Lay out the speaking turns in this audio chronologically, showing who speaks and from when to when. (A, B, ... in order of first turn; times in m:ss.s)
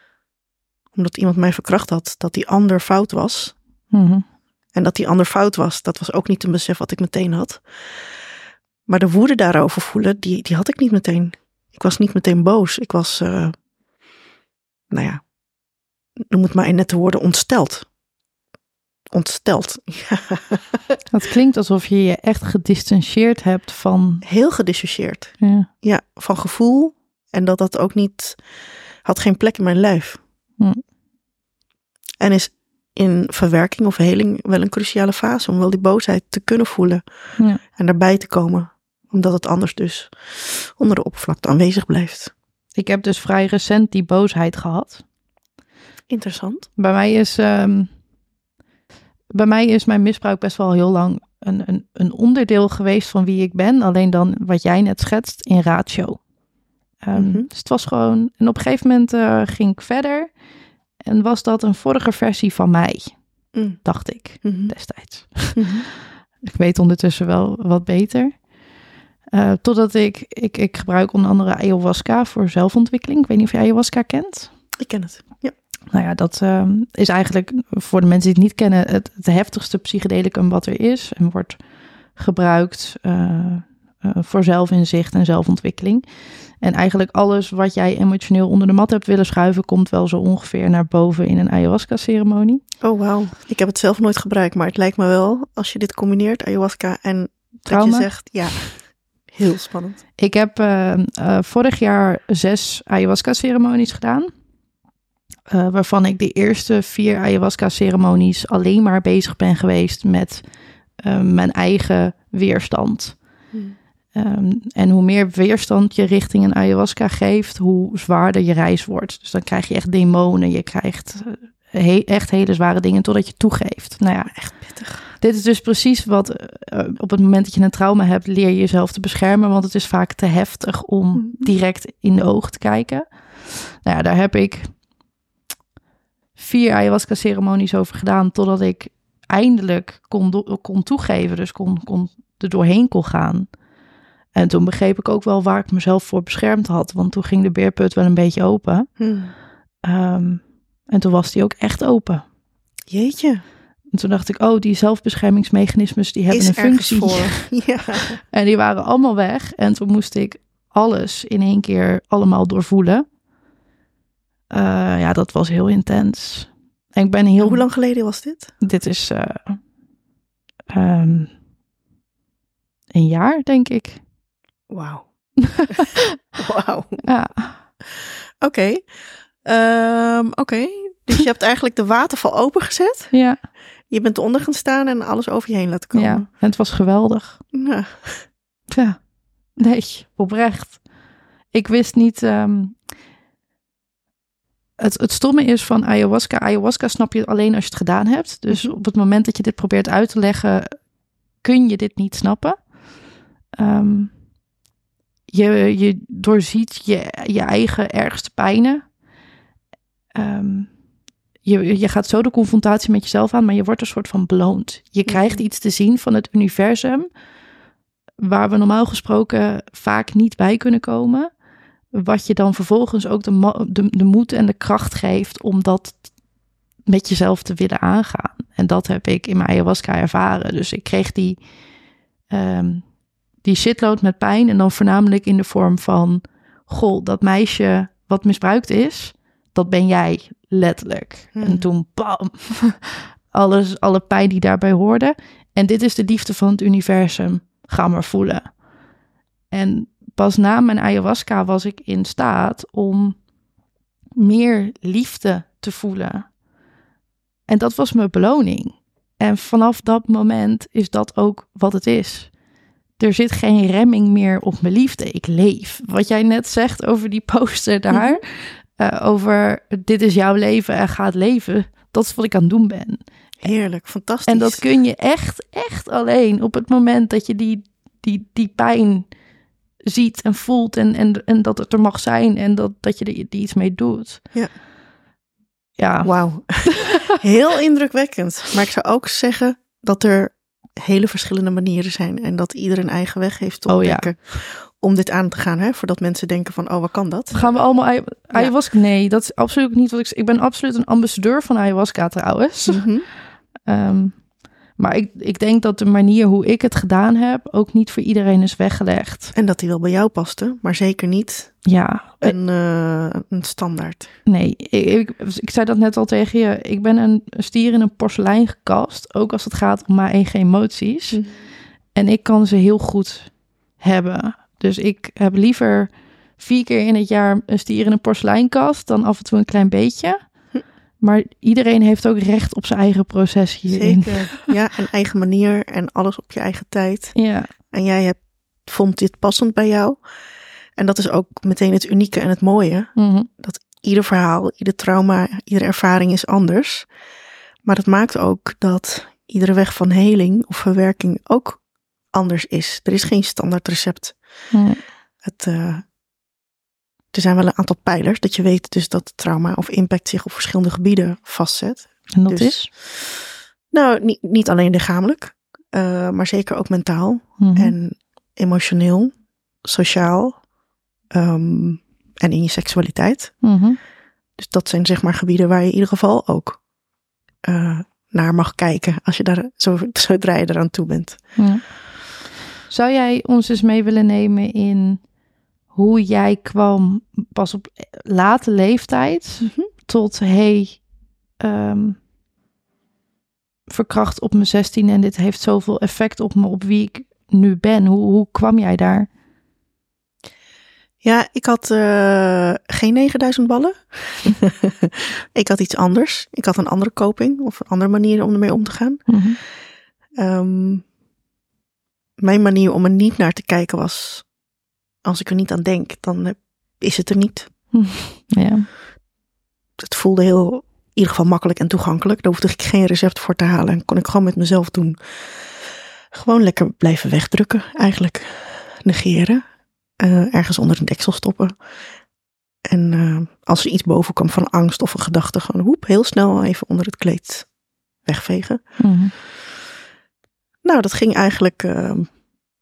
0:00.9-0:03.5 A
0:03.9-0:04.2 B
0:04.7-0:07.6 A
0:08.9-0:13.5 A
0:14.9-0:15.2 A
0:16.2-0:17.9 A
0:19.1-0:21.0 A
0:21.1-0:24.2 B
0:24.2-0:28.4 A
0:25.4-0:25.7 B
0:29.0-0:30.2 A
0:32.2-0:37.0 A
0:37.6-0:42.3 A
0:42.8-0:45.0 B
0:46.1-0:46.7 A
0:46.8-0:47.9 B
0:49.3-0:56.2 B
0:57.0-1:00.3 B
0:57.1-0:57.5 A
1:01.0-1:03.2 B
1:03.5-1:03.8 A
1:03.8-1:05.6 B
1:04.4-1:04.7 A
1:05.5-1:05.8 A
1:06.4-1:08.4 B
1:09.3-1:14.5 B
1:14.8-1:15.5 A
1:15.9-1:21.6 B
1:22.2-1:26.0 B
1:26.6-1:32.6 B
1:32.8-1:40.0 A
1:37.7-1:38.1 B
1:40.2-1:44.3 B
1:45.5-1:50.4 B
1:51.0-1:53.2 B
1:54.1-2:04.3 B
2:04.3-2:05.0 A
2:05.2-2:14.7 B
2:11.2-2:11.5 A
2:16.4-2:23.5 B
2:24.3-2:28.9 B
2:29.0-2:29.3 A
2:29.8-2:32.2 B
2:32.9-2:33.4 A
2:33.9-2:37.5 B
2:36.3-2:38.2 A
2:38.3-2:43.0 B
2:44.5-2:47.6 B
2:47.4-2:48.5 A
2:48.6-2:49.6 B
2:50.7-2:51.3 B
2:52.9-2:54.0 B
2:54.7-2:55.1 A
2:55.4-2:56.0 B
2:56.4-2:57.1 A
2:57.0-2:57.6 B
2:57.9-2:58.9 A
2:59.4-3:03.1 A
3:03.1-3:03.4 B
3:03.9-3:06.3 A
3:05.9-3:07.4 B
3:07.5-3:08.3 A
3:08.7-3:10.8 B
3:11.5-3:12.8 B
3:14.8-3:20.8 B
3:21.4-3:22.7 B
3:23.5-3:24.2 B
3:25.3-3:28.9 B
3:30.1-3:30.7 B
3:31.4-3:37.1 B
3:35.0-3:35.4 A
3:38.2-3:41.3 B
3:41.9-3:46.0 B
3:46.8-3:51.4 B
3:52.3-3:52.8 B
3:53.4-4:08.6 B
4:01.3-4:01.7 A
4:09.5-4:13.2 B
4:14.2-4:16.3 B
4:17.5-4:22.3 B
4:23.0-4:33.0 B
4:27.9-4:28.2 A
4:33.4-4:34.6 A
4:34.3-4:39.0 B
4:39.9-4:44.2 B
4:45.8-4:46.1 B
4:46.0-4:57.6 A
4:53.7-4:54.1 B
4:57.3-5:03.0 B
5:02.7-5:03.1 A
5:03.6-5:09.3 B
5:09.3-5:11.7 A
5:11.6-5:12.3 B
5:12.2-5:14.1 A
5:14.2-5:21.2 B
5:21.9-5:30.2 B
5:31.0-5:34.4 B
5:33.7-5:40.0 A
5:37.1-5:37.5 B
5:40.8-5:46.9 A
5:43.0-5:43.3 B
5:47.6-5:51.6 A
5:52.1-5:54.2 A
5:54.5-5:54.8 B
5:55.2-5:55.8 A
5:57.1-6:09.1 A
6:02.1-6:02.7 B
6:07.4-6:07.7 B
6:09.6-6:10.4 A
6:11.1-6:13.4 A
6:13.4-6:13.8 B
6:14.4-6:16.6 A
6:17.4-6:21.4 A
6:21.4-6:21.9 B
6:22.7-6:25.0 B
6:25.7-6:30.8 B
6:31.4-6:32.0 B
6:33.7-6:39.1 B
6:41.0-6:49.2 A
6:49.1-6:49.4 B
6:50.2-6:50.8 A
6:52.2-6:54.3 A
6:55.0-6:57.5 A
6:57.7-6:58.7 B
6:59.8-7:09.4 A
7:10.0-7:11.5 A
7:12.6-7:17.5 A
7:18.0-7:18.8 A
7:18.8-7:19.1 B
7:20.6-7:22.1 A